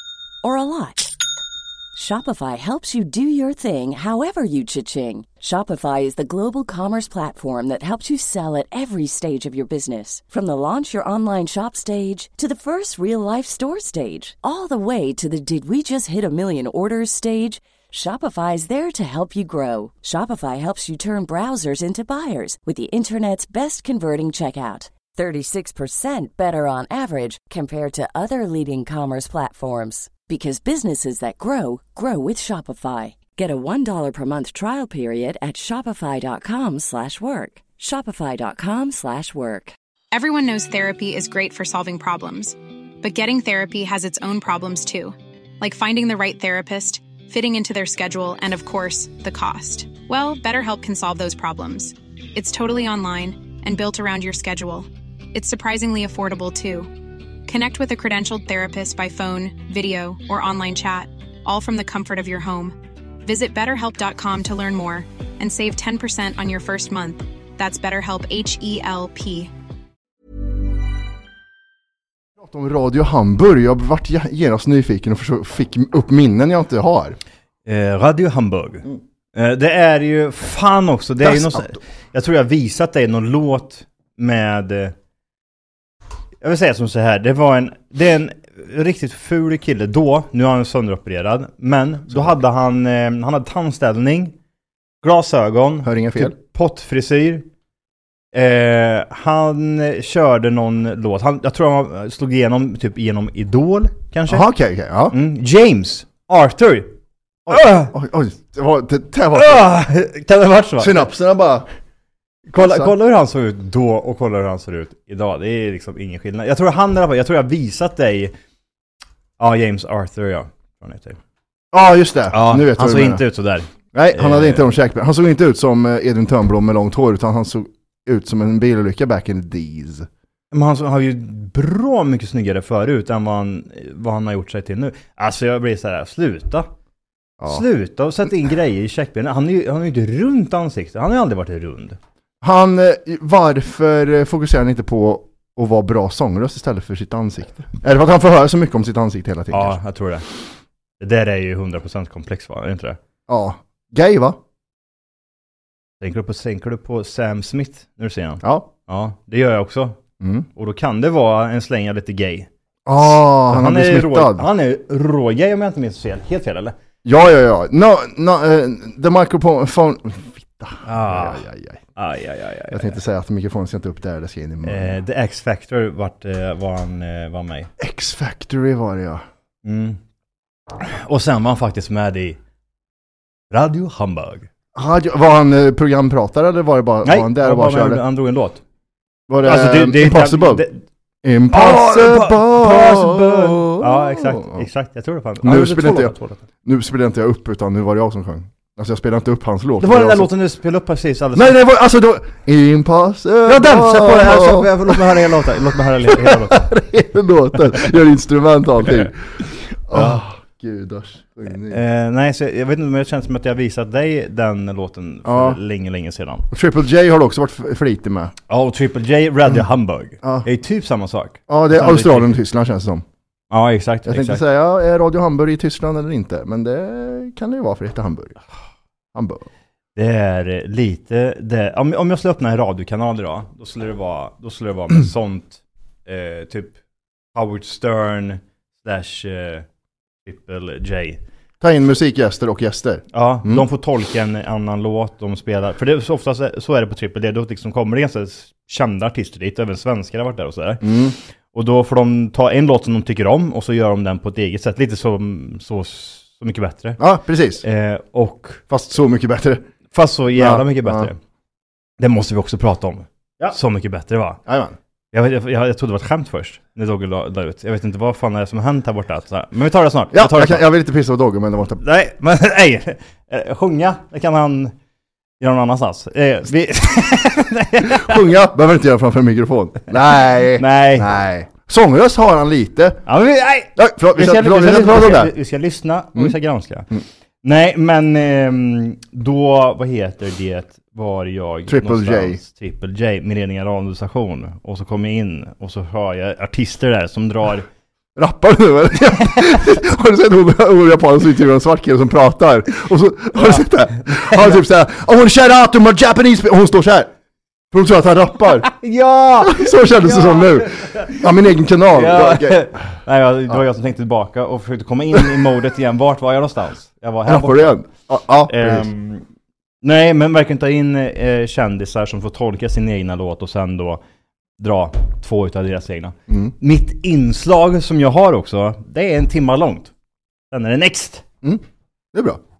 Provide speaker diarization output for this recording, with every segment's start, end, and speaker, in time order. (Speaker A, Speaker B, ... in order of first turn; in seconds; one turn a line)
Speaker A: 0.4-1.1
Speaker A: 1.9-39.7
Speaker B: 40.1-56.9
Speaker B: 57.5-69.5
Speaker C: 72.4-77.2
Speaker D: 77.7-84.9
Speaker C: 81.2-81.7
Speaker D: 86.4-94.3
Speaker D: 95.0-97.4
Speaker C: 95.8-96.3
Speaker D: 98.3-104.4
Speaker C: 104.3-105.2
Speaker D: 105.1-106.9
Speaker C: 107.5-109.7
Speaker D: 107.5-107.9
Speaker D: 109.3-111.1
Speaker C: 110.8-111.7
Speaker D: 112.5-118.3
Speaker C: 112.6-112.9
Speaker D: 119.4-121.2
Speaker C: 121.7-123.2
Speaker D: 122.3-124.7
Speaker C: 123.9-130.1
Speaker D: 130.5-136.7
Speaker D: 137.4-142.0
Speaker C: 142.4-149.8
Speaker D: 149.5-150.2
Speaker D: 151.0-153.0
Speaker C: 153.3-154.4
Speaker D: 156.0-160.0
Speaker C: 158.4-158.7
Speaker C: 160.2-160.5
Speaker D: 160.6-166.8
Speaker C: 162.8-164.4
Speaker C: 167.0-171.8
Speaker D: 170.9-171.4
Speaker D: 172.0-172.9
Speaker C: 172.7-174.9
Speaker D: 174.6-177.7
Speaker C: 177.8-179.2
Speaker D: 179.6-180.0
Speaker D: 180.8-182.4
Speaker D: 183.5-184.5
Speaker C: 184.7-188.0
Speaker D: 187.0-188.6
Speaker C: 189.3-190.6
Speaker D: 189.4-190.8
Speaker C: 191.2-194.6
Speaker D: 191.5-196.4
Speaker C: 195.4-196.1
Speaker C: 196.6-200.3
Speaker D: 199.8-201.6
Speaker C: 201.3-205.1
Speaker D: 203.5-206.8
Speaker C: 206.1-209.2
Speaker C: 209.9-211.8
Speaker D: 209.9-210.2
Speaker D: 211.7-216.4
Speaker C: 215.2-215.6
Speaker C: 216.5-218.3
Speaker D: 218.5-222.4
Speaker C: 221.5-223.0
Speaker D: 223.5-224.4
Speaker C: 224.1-228.4
Speaker C: 229.1-229.4
Speaker D: 229.9-236.7
Speaker D: 237.3-239.6
Speaker D: 240.2-241.2
Speaker C: 241.6-243.6
Speaker D: 243.1-250.8
Speaker C: 250.8-251.1
Speaker D: 251.5-257.0
Speaker C: 257.0-257.6
Speaker D: 257.6-258.6
Speaker C: 258.7-259.6
Speaker D: 259.9-261.2
Speaker C: 260.4-261.1
Speaker D: 262.0-264.4
Speaker C: 264.4-264.7
Speaker D: 265.1-270.6
Speaker C: 270.1-271.8
Speaker D: 271.8-274.7
Speaker D: 275.4-278.3
Speaker C: 277.8-283.0
Speaker D: 280.6-281.1
Speaker D: 283.1-286.9
Speaker C: 283.8-285.3
Speaker D: 287.4-297.7
Speaker C: 291.7-292.4
Speaker C: 298.1-307.1
Speaker D: 303.4-304.6
Speaker C: 307.7-308.7
Speaker D: 308.6-311.3
Speaker C: 309.4-312.7
Speaker D: 311.9-317.8
Speaker C: 317.2-318.9
Speaker D: 318.5-319.2
Speaker D: 319.8-324.0
Speaker D: 324.6-329.9
Speaker D: 330.5-331.2
Speaker C: 332.1-332.4